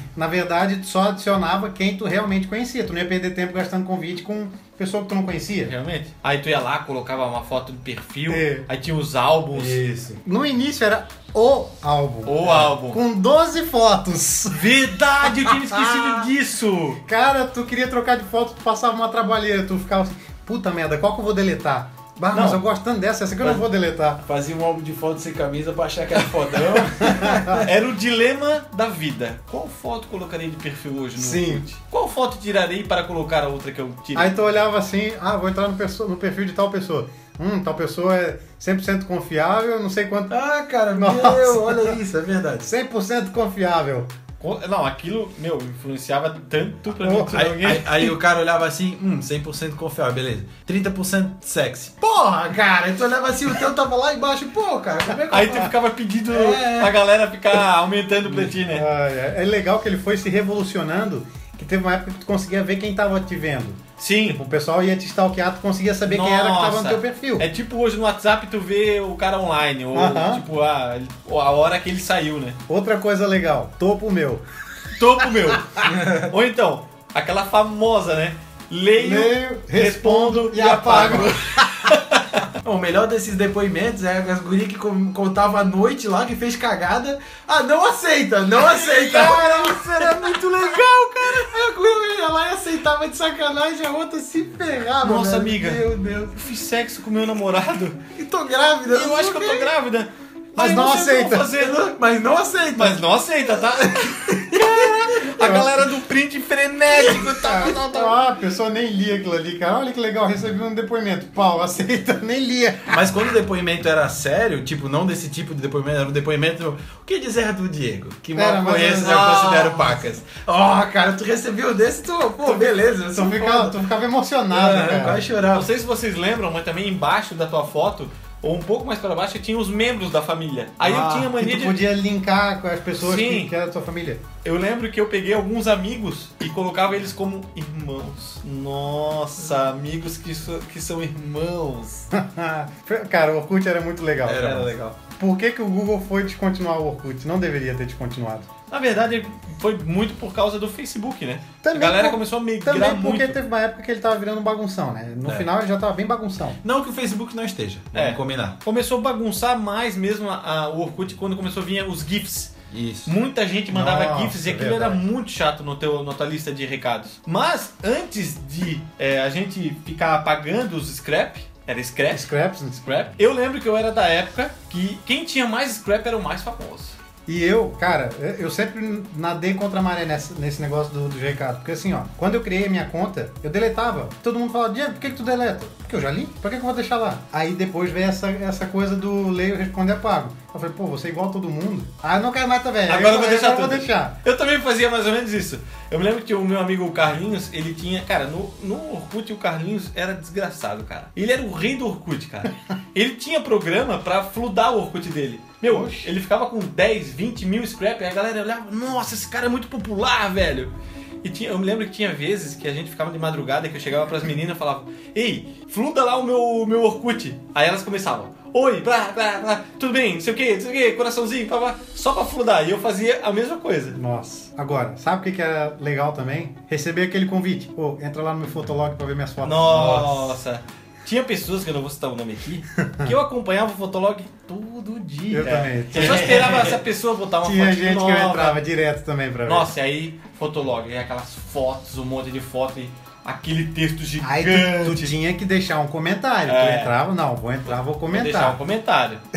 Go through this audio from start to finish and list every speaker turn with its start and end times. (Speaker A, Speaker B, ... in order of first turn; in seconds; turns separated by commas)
Speaker A: 0.1-5.7, Speaker B: 5.7-9.8, Speaker A: 8.3-8.7, Speaker C: 9.5-10.2, Speaker A: 10.2-16.3, Speaker B: 12.2-13.0, Speaker B: 14.5-17.0, Speaker A: 17.0-24.2, Speaker B: 22.3-22.6, Speaker C: 24.2-27.7, Speaker A: 27.0-27.6, Speaker B: 27.6-34.4, Speaker A: 31.2-31.6, Speaker A: 34.1-40.3, Speaker C: 40.3-42.7, Speaker A: 40.9-42.0, Speaker A: 42.6-44.1, Speaker B: 44.4-48.2, Speaker A: 47.0-47.4, Speaker C: 47.3-55.7, Speaker B: 55.3-58.9, Speaker C: 56.3-57.0, Speaker A: 58.6-67.5, Speaker B: 64.0-64.4, Speaker B: 66.1-72.6, Speaker A: 69.9-70.4, Speaker A: 72.7-74.4, Speaker B: 75.0-82.4, Speaker A: 75.2-75.8, Speaker C: 75.8-76.3, Speaker A: 79.0-82.0, Speaker C: 82.6-96.4, Speaker B: 88.6-91.4, Speaker B: 95.0-98.0, Speaker C: 98.1-99.7, Speaker B: 98.9-101.8, Speaker A: 100.6-101.5, Speaker C: 101.5-103.0, Speaker B: 102.8-108.2, Speaker C: 103.6-105.0, Speaker A: 105.4-105.8, Speaker A: 107.1-113.0, Speaker C: 112.9-123.8, Speaker A: 118.3-119.5, Speaker B: 118.9-120.0, Speaker A: 123.1-125.2, Speaker C: 124.5-125.7, Speaker B: 125.5-131.8, Speaker A: 130.8-134.2, Speaker B: 133.0-133.5, Speaker B: 134.4-142.1, Speaker A: 142.1-148.5, Speaker C: 144.2-144.7, Speaker B: 144.4-145.0, Speaker B: 148.7-153.4, Speaker A: 151.6-156.6, Speaker C: 156.6-158.6, Speaker B: 157.9-162.5, Speaker C: 162.7-163.1, Speaker B: 163.1-172.3, Speaker A: 163.7-165.0, Speaker A: 172.1-172.8, Speaker B: 172.8-177.0, Speaker A: 177.3-194.2, Speaker B: 192.9-210.7, Speaker A: 205.7-206.1, Speaker B: 211.2-224.0, Speaker A: 223.9-230.2, Speaker B: 229.4-238.6, Speaker A: 232.8-233.1, Speaker A: 235.3-236.8, Speaker C: 236.0-236.5, Speaker A: 237.4-239.7, Speaker B: 239.4-245.1, Speaker A: 244.2-248.6, Speaker B: 246.4-246.9, Speaker B: 248.1-249.2